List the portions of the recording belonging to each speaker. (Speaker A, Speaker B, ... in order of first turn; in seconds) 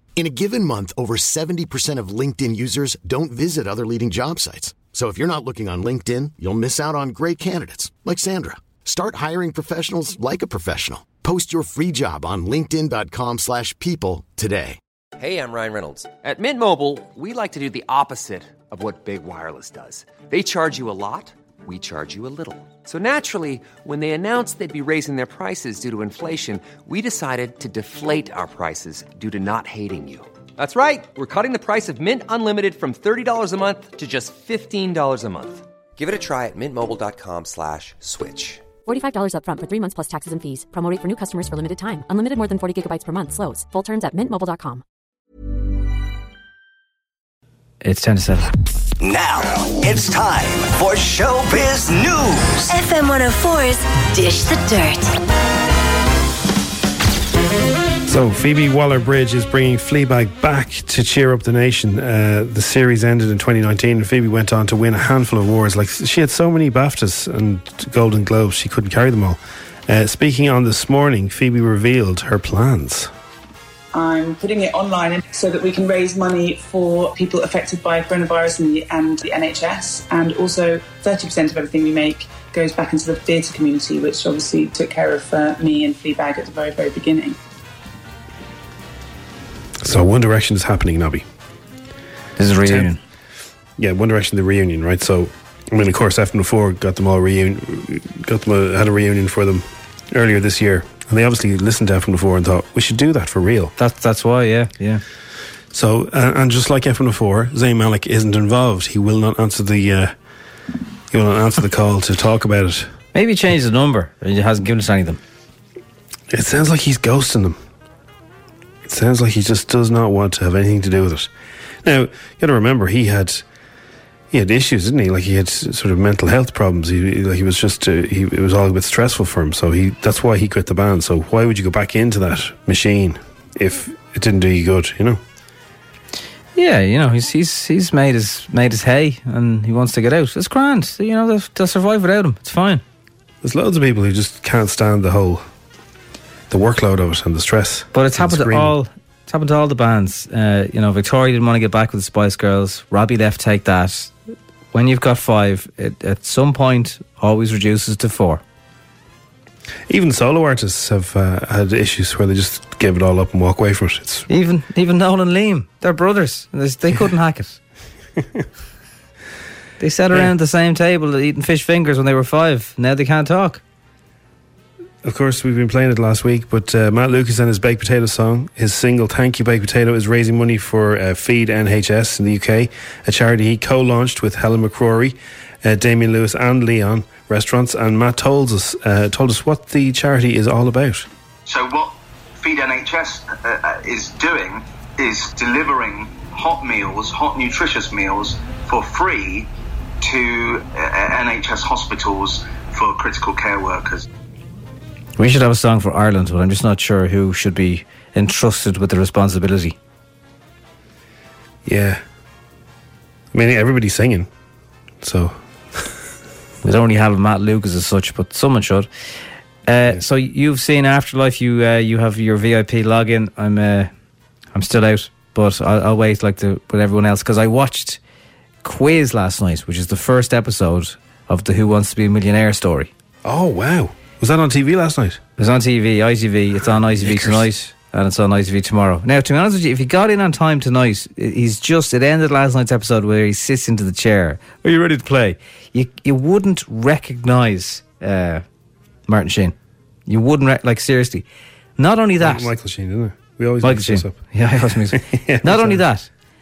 Speaker A: 0.2-14.8
Speaker B: 15.2-38.6
Speaker C: 38.8-44.8
Speaker D: 47.8-48.5, 92.4-93.0, 103.8-105.0, 113.1-115.2, 136.5-142.8, 147.9-154.1, 154.7-158.4, 164.3-167.6, 169.8-173.6, 205.2-209.8, 216.6-218.9, 219.7-223.9, 224.5-228.0, 228.6-232.9, 235.4-248.4, 249.1-249.5, 250.1-251.2, 251.8-252.5, 253.6-256.1
Speaker E: 49.0-52.7
Speaker F: 52.7-55.1
Speaker G: 58.0-73.1, 89.8-91.2, 92.6-92.9, 93.8-103.7, 105.7-110.1, 111.1-112.9, 116.3-117.6, 118.8-121.3, 121.8-123.4, 124.3-135.2, 143.4-145.4, 146.5-148.8, 159.9-164.3, 175.0-191.1, 211.6-212.0, 213.3-214.3, 215.0-215.9, 233.2-235.2, 236.6-237.5, 252.2-255.8
Speaker H: 73.9-87.4
Speaker I: 191.4-199.5, 200.0-204.1